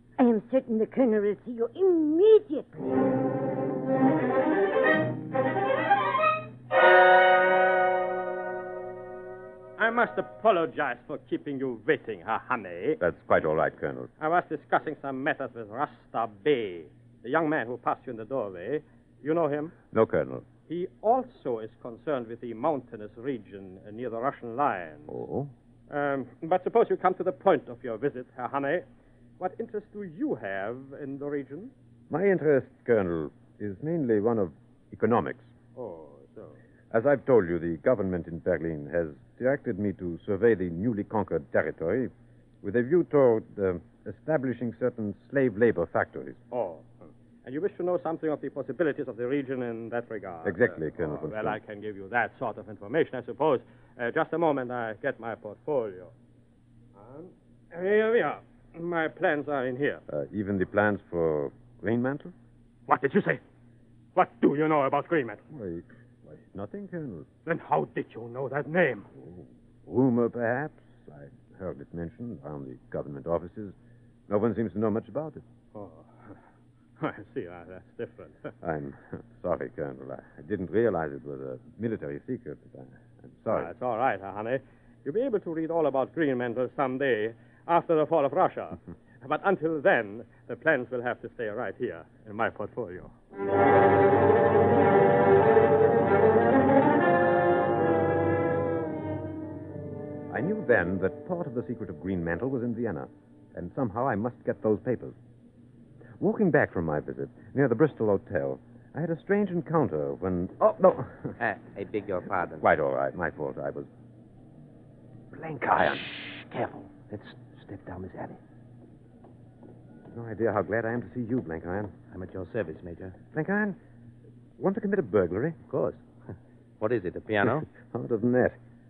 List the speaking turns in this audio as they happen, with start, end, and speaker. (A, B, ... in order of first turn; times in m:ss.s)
0:00.2-0:02.9 A
0:09.8-0:13.0 B
0:13.0-0:14.1 C
0:14.2-0:19.8 B
0:19.9-0:20.5 C
0:20.7-0:25.2 B
0:25.1-0:25.5 C
0:25.9-0:28.9 B
0:29.4-0:31.7 B
0:32.1-0:35.5 C
0:35.8-0:36.6 B
0:36.9-0:42.1 C
0:42.6-0:46.4 C
0:46.5-0:56.1 B
0:50.4-0:51.6 C
0:57.0-1:00.0 B
1:00.1-1:02.3 C
1:02.9-1:03.4 B
1:04.2-1:05.4 B
1:05.5-1:07.3 C
1:07.5-1:09.1 B
1:09.2-1:13.8 C
1:14.3-1:15.4 C
1:15.8-1:16.3 B
1:17.0-1:18.5 B
1:18.6-1:23.7 C
1:23.5-1:33.1 B
1:40.3-1:45.2 C
1:46.2-1:51.4 C
1:51.4-1:52.6 D
1:52.6-1:53.9 C
1:55.4-1:58.4 E
2:00.1-2:02.0 C
2:02.1-2:03.1 D
2:02.2-2:03.1 E
2:03.3-2:03.8 C
2:04.6-2:05.6 C
2:06.8-2:07.6 D
2:07.6-2:08.6 C